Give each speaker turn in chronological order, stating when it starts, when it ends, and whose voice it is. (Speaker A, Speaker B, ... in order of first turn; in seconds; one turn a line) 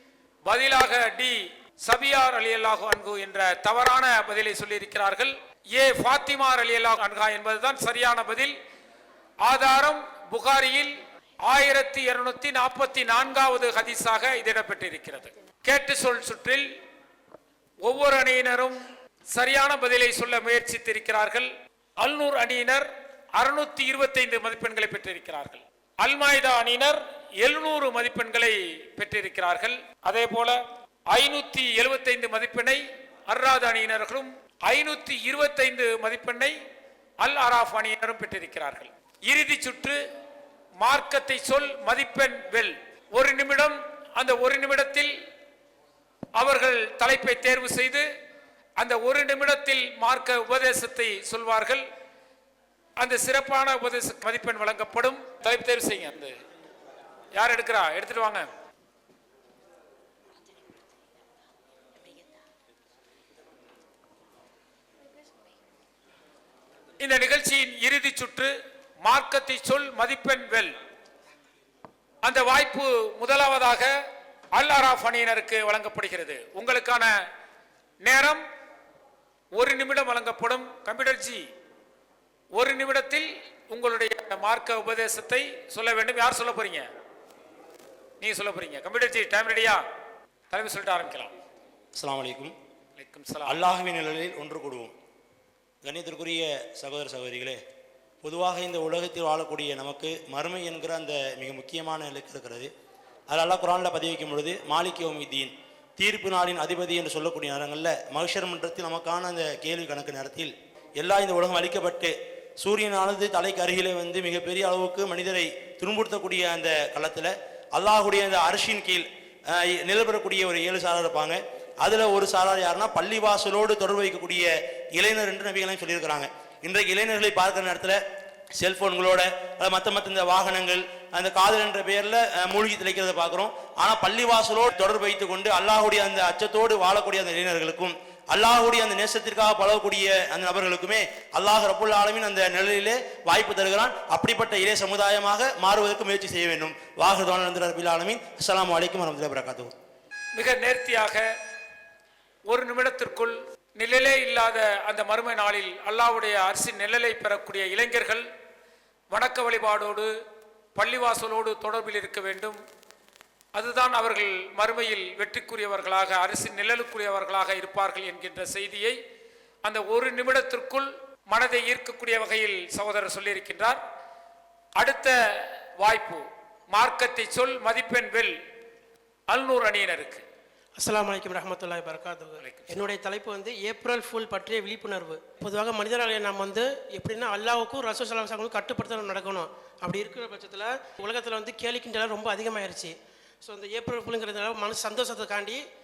Speaker A: 0.4-8.5
Speaker A: 9.4-16.7
Speaker A: 17.8-18.8
Speaker A: 19.3-30.6
Speaker A: 31.1-36.5
Speaker A: 37.2-40.0
Speaker A: 40.8-45.1
Speaker A: 46.4-48.0
Speaker A: 48.8-51.8
Speaker A: 53.0-56.4
Speaker A: 57.3-58.5
Speaker A: 67.0-70.8
Speaker A: 72.2-73.9
Speaker A: 74.5-77.1
Speaker A: 78.0-78.4
Speaker A: 79.5-81.4
Speaker A: 82.5-86.9
Speaker A: 88.2-89.8
Speaker A: 90.5-91.3
Speaker B: 92.0-92.5
Speaker A: 93.0-93.6
Speaker B: 93.5-94.9
Speaker B: 95.8-97.6
Speaker B: 98.2-102.7
Speaker B: 103.3-128.0
Speaker B: 128.6-149.7
Speaker A: 150.3-151.2
Speaker A: 152.5-158.2
Speaker A: 159.1-160.1
Speaker A: 160.8-162.6
Speaker A: 163.5-169.0
Speaker A: 169.6-173.8
Speaker A: 174.8-178.3
Speaker A: 179.3-180.2
Speaker C: 180.8-192.9
Speaker A: 182.4-182.9
Speaker C: 193.4-195.6